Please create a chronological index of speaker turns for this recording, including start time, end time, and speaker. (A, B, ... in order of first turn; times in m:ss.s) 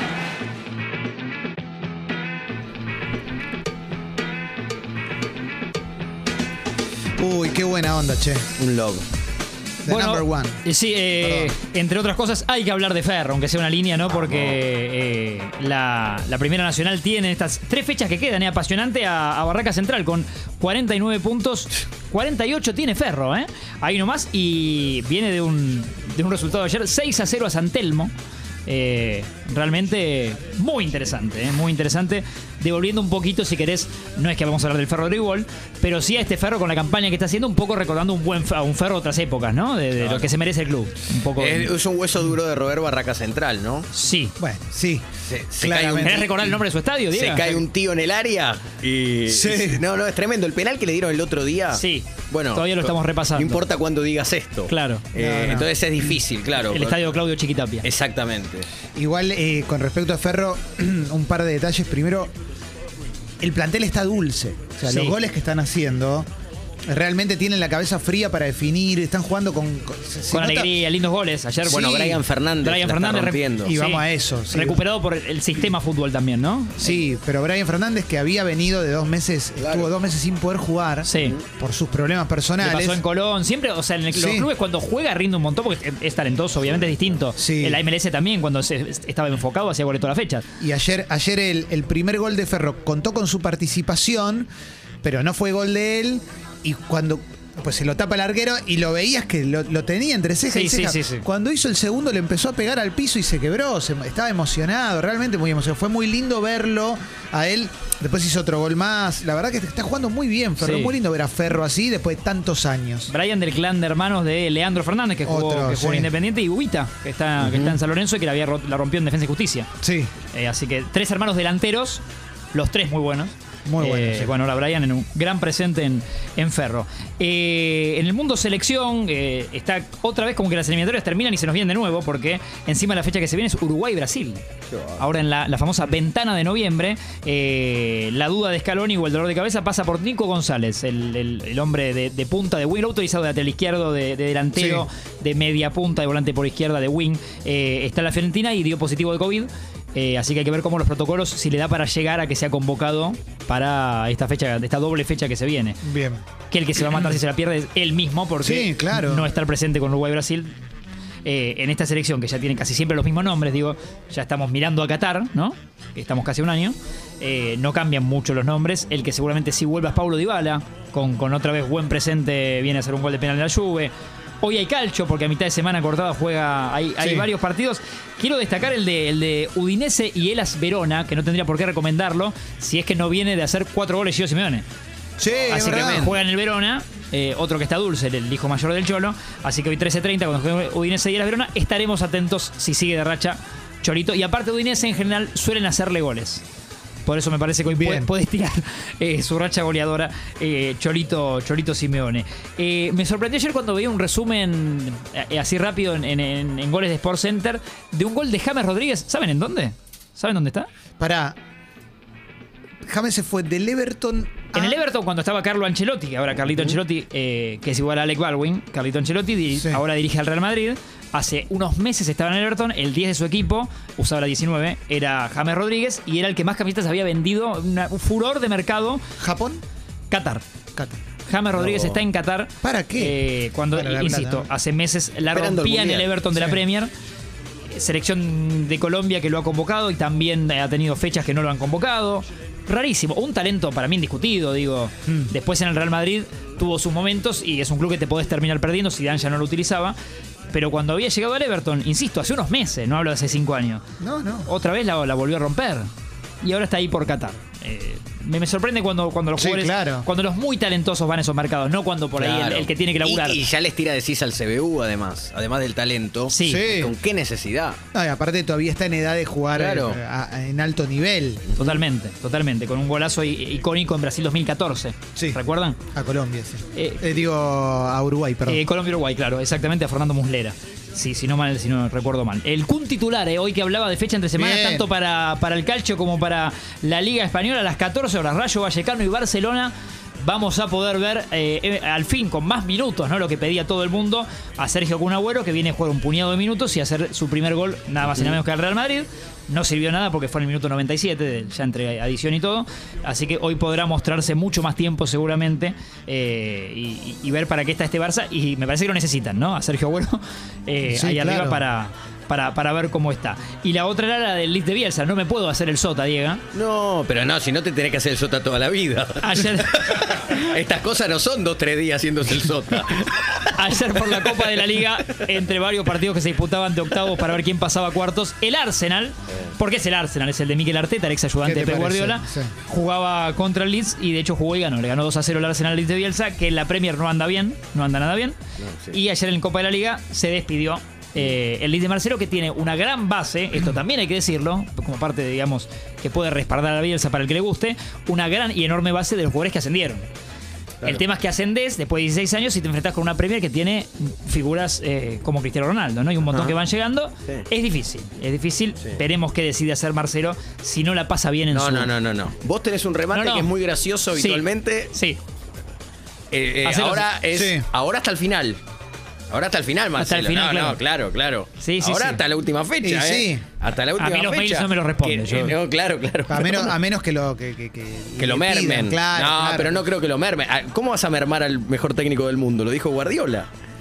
0:07.2-0:08.5 A
0:08.6-0:09.0 B
0:09.8-0:10.6 A
0:09.8-0:28.1 C
0:11.2-0:11.5 A
0:28.6-0:41.7 C
0:40.0-0:40.3 B
0:41.3-0:43.9 B
0:43.9-0:44.4 C
0:44.4-0:45.0 A
0:45.2-0:46.5 B
0:45.6-0:46.6 A
0:46.0-0:47.6 C
0:47.1-0:57.1 B
0:49.3-0:49.8 A
0:51.7-0:53.6 C
0:54.7-0:55.0 C
0:55.1-0:55.7 A
0:56.7-0:57.8 C
0:57.8-0:58.7 B
0:58.9-1:02.3 A
1:03.4-1:06.3 A
1:04.8-1:05.2 C
1:06.9-1:10.7 A
1:10.3-1:17.0 C
1:11.6-1:13.7 B
1:13.6-1:14.8 A
1:16.8-1:23.0 A
1:19.6-1:19.9 B
1:21.0-1:21.4 C
1:22.6-1:30.4 C
1:24.1-1:24.5 A
1:27.4-1:27.8 A
1:30.6-1:34.5 A
1:35.0-1:53.1 A
1:40.5-1:41.2 C
1:50.6-1:51.0 C
1:53.1-1:59.7 C
1:55.2-1:56.1 A
1:57.4-1:57.8 B
1:59.8-2:00.1 A
2:00.3-2:14.4 C
2:03.6-2:04.3 A
2:14.7-2:15.0 B
2:15.0-2:35.8 C
2:24.6-2:24.9 A
2:35.8-2:36.2 A
2:36.5-2:40.6 C
2:38.4-2:39.3 A
2:41.2-3:04.6 C
2:57.0-2:57.3 A
3:05.2-3:06.2 A
3:05.5-3:16.4 C
3:17.0-3:30.7 C
3:17.6-3:18.1 A
3:31.0-3:31.4 A
3:32.8-3:34.8 A
3:34.5-3:49.0 C
3:49.2-3:49.6 A
3:50.1-3:50.4 C
3:50.7-3:51.0 A
3:51.2-3:56.9 C
3:51.6-3:52.0 B
3:52.6-3:54.5 A
3:55.3-3:56.1 B
3:56.3-3:56.6 A
3:57.7-4:10.0 C
4:10.5-4:13.8 C
4:14.0-4:14.5 A
4:14.4-4:15.9 C
4:16.4-4:23.4 C
4:19.4-4:20.1 A
4:22.2-4:27.8 B
4:26.3-4:26.7 C
4:26.4-4:26.9 A
4:27.9-4:31.6 A
4:29.5-4:30.0 B
4:31.5-4:35.8 C
4:35.9-4:38.6 A
4:36.7-4:37.0 C
4:38.4-5:16.4 C
4:44.4-4:44.9 A
5:10.8-5:11.6 A
5:16.5-5:24.6 B
5:19.2-5:20.2 C
5:23.4-5:38.4 C
5:31.4-5:32.5 A
5:38.6-5:39.0 B
5:38.9-5:50.0 C
5:50.8-6:01.9 C
5:56.3-5:56.5 B
6:01.5-6:04.9 B
6:03.1-6:03.5 C
6:04.1-6:05.2 C
6:06.3-6:08.6 B
6:06.6-6:07.1 C
6:07.3-6:07.7 A
6:09.3-6:16.8 B
6:10.0-6:10.8 C
6:11.6-6:12.2 C
6:12.8-6:13.4 A
6:14.0-6:15.6 C
6:16.3-6:19.9 A
6:18.2-6:23.5 B